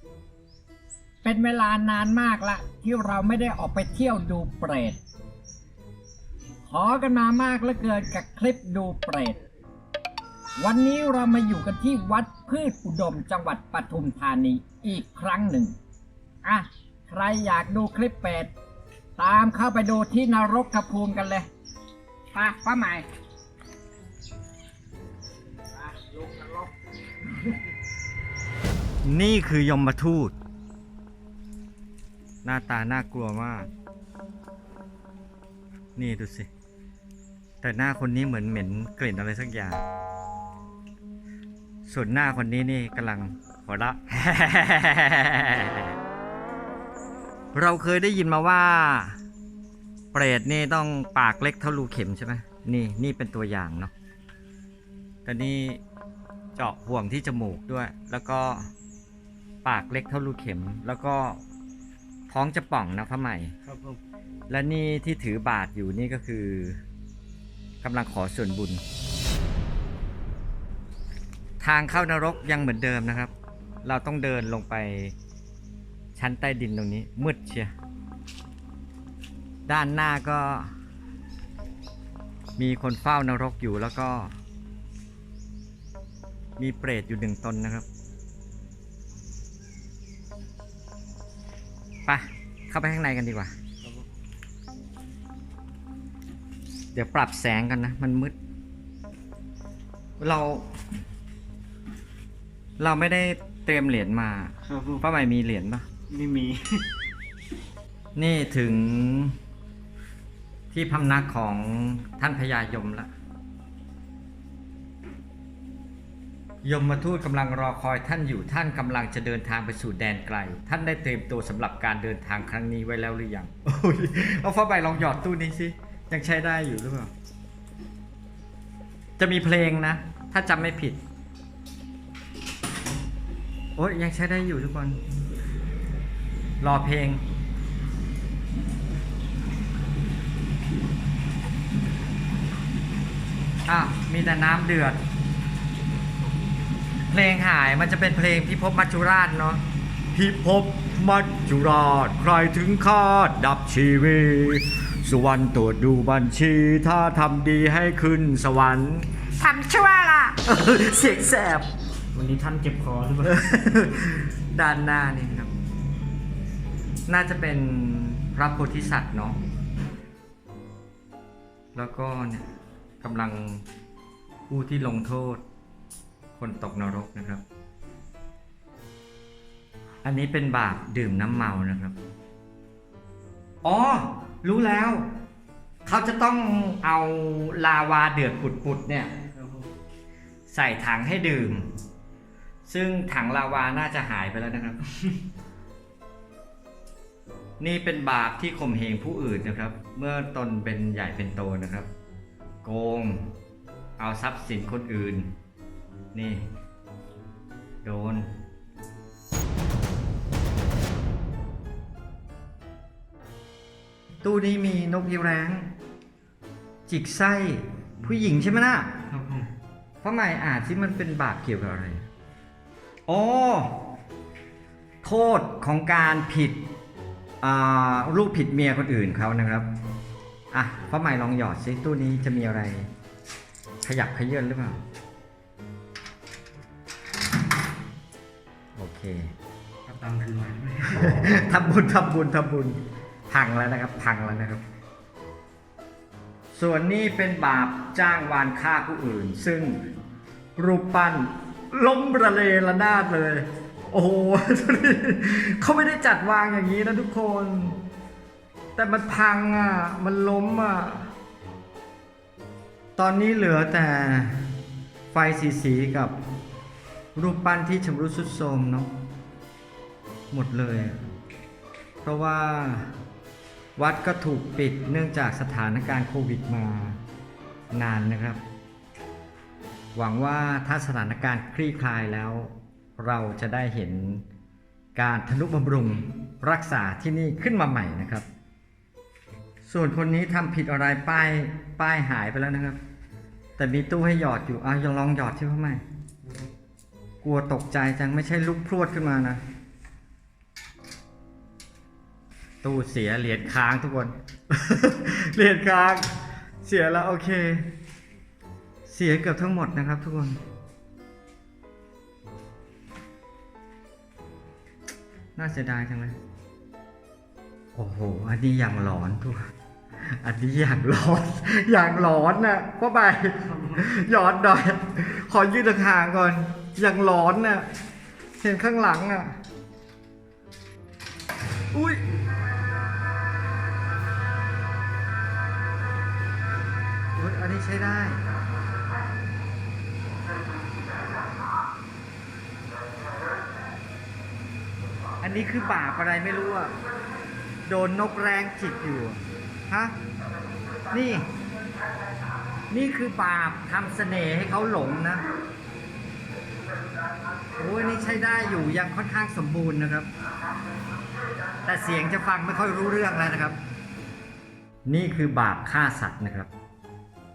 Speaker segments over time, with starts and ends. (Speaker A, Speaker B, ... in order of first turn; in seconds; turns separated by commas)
Speaker A: 1.2-5.0, Speaker A: 6.7-9.4, Speaker A: 10.6-15.8, Speaker A: 16.4-18.5, Speaker A: 19.2-21.5, Speaker A: 22.3-23.1, Speaker A: 25.8-26.7, Speaker B: 29.0-30.3, Speaker B: 32.4-33.7, Speaker B: 36.0-36.5, Speaker B: 37.6-39.8, Speaker B: 41.8-46.0, Speaker B: 47.5-49.2, Speaker B: 50.1-53.9, Speaker B: 55.2-55.8, Speaker B: 56.5-58.7, Speaker B: 59.6-61.4, Speaker B: 62.3-63.5, Speaker C: 63.6-64.0, Speaker B: 64.5-66.8, Speaker B: 67.8-68.8, Speaker B: 71.6-73.3, Speaker B: 73.8-75.1, Speaker B: 76.2-77.7, Speaker B: 79.7-80.7, Speaker B: 82.6-84.3, Speaker B: 86.6-87.8, Speaker B: 92.0-93.5, Speaker B: 96.9-98.3, Speaker B: 100.2-100.8, Speaker B: 102.8-105.9, Speaker C: 104.7-105.0, Speaker C: 106.1-106.8, Speaker B: 108.2-109.4, Speaker B: 110.7-113.1, Speaker B: 116.6-127.1, Speaker B: 129.2-131.0, Speaker B: 133.8-135.0, Speaker B: 136.6-137.2, Speaker B: 143.7-145.0, Speaker B: 147.1-149.6, Speaker B: 150.1-161.7, Speaker C: 162.1-163.4, Speaker B: 163.2-165.5, Speaker B: 167.1-169.4, Speaker B: 171.7-172.5, Speaker B: 173.0-173.6, Speaker B: 174.5-175.4, Speaker B: 176.3-177.4, Speaker B: 180.0-181.9, Speaker B: 183.6-185.1, Speaker B: 185.8-189.1, Speaker C: 189.3-189.7, Speaker B: 190.5-191.8, Speaker B: 192.7-194.8, Speaker B: 197.6-201.9, Speaker B: 202.6-203.3, Speaker B: 204.0-205.4, Speaker B: 206.1-206.5, Speaker B: 207.8-208.3, Speaker B: 214.2-215.7, Speaker B: 216.9-219.0, Speaker C: 219.1-219.5, Speaker B: 220.0-222.1, Speaker B: 223.1-223.9, Speaker B: 225.0-226.6, Speaker B: 227.4-229.7, Speaker B: 230.5-232.9, Speaker B: 233.8-234.8, Speaker B: 238.8-239.3, Speaker C: 239.8-241.1, Speaker B: 240.9-244.6, Speaker B: 246.5-249.9, Speaker B: 250.6-257.8, Speaker B: 258.8-261.1, Speaker B: 263.0-264.5, Speaker B: 265.1-266.1, Speaker B: 267.1-269.0, Speaker B: 270.3-271.0, Speaker B: 272.0-272.9, Speaker B: 273.8-277.0, Speaker B: 277.7-278.4, Speaker B: 279.9-284.2, Speaker B: 284.9-288.2, Speaker B: 289.6-292.8, Speaker B: 293.6-295.8, Speaker B: 297.2-299.4, Speaker B: 302.6-307.7, Speaker B: 308.9-310.4, Speaker B: 315.4-316.2, Speaker B: 317.7-327.7, Speaker B: 328.4-329.4, Speaker B: 331.7-332.0, Speaker B: 337.1-338.2, Speaker B: 345.2-346.7, Speaker B: 347.6-350.0, Speaker B: 350.9-351.3, Speaker B: 352.7-355.2, Speaker B: 357.6-360.1, Speaker B: 361.6-363.6, Speaker B: 364.9-366.5